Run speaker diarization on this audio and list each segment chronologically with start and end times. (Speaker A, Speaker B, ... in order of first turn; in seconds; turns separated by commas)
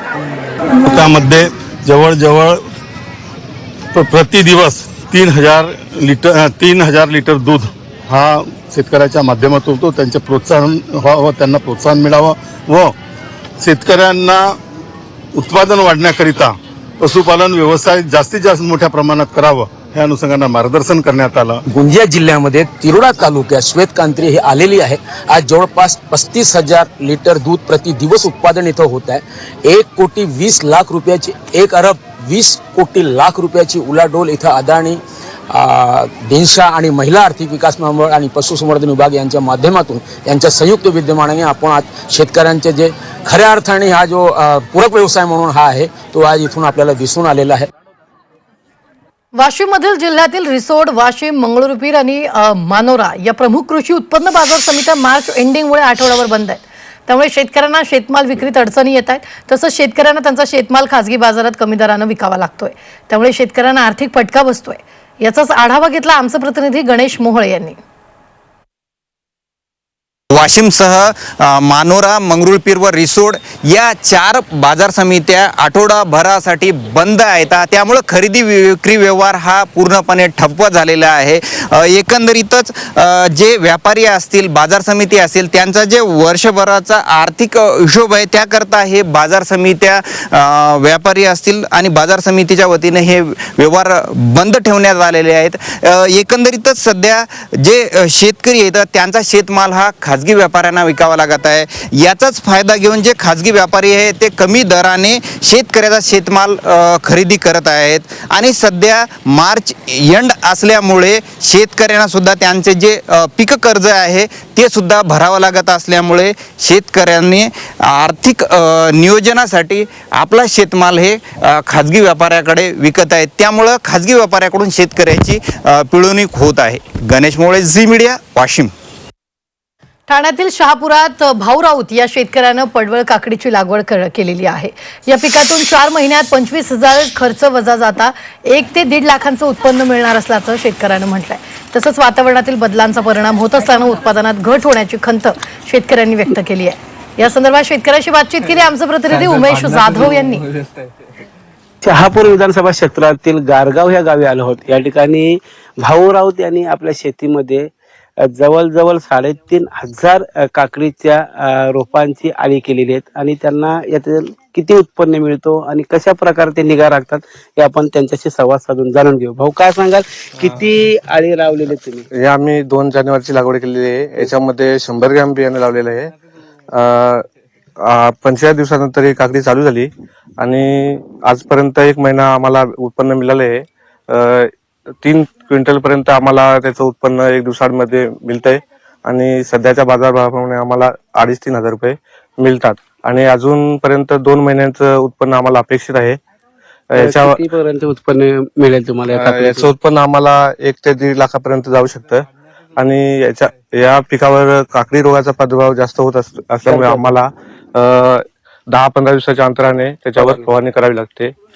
Speaker A: 0.8-2.6, Speaker A: 3.9-12.9, Speaker A: 13.6-14.6, Speaker A: 15.3-21.6, Speaker B: 21.7-47.7, Speaker C: 49.4-67.8, Speaker D: 70.3-128.7, Speaker C: 130.1-150.5, Speaker E: 151.8-172.1, Speaker F: 170.4-170.7, Speaker F: 172.2-176.1, Speaker F: 176.7-177.2, Speaker F: 177.8-184.5, Speaker F: 185.0-196.2, Speaker F: 196.9-197.4, Speaker E: 196.9-199.7, Speaker F: 199.1-211.3, Speaker E: 206.7-207.1, Speaker E: 210.2-210.5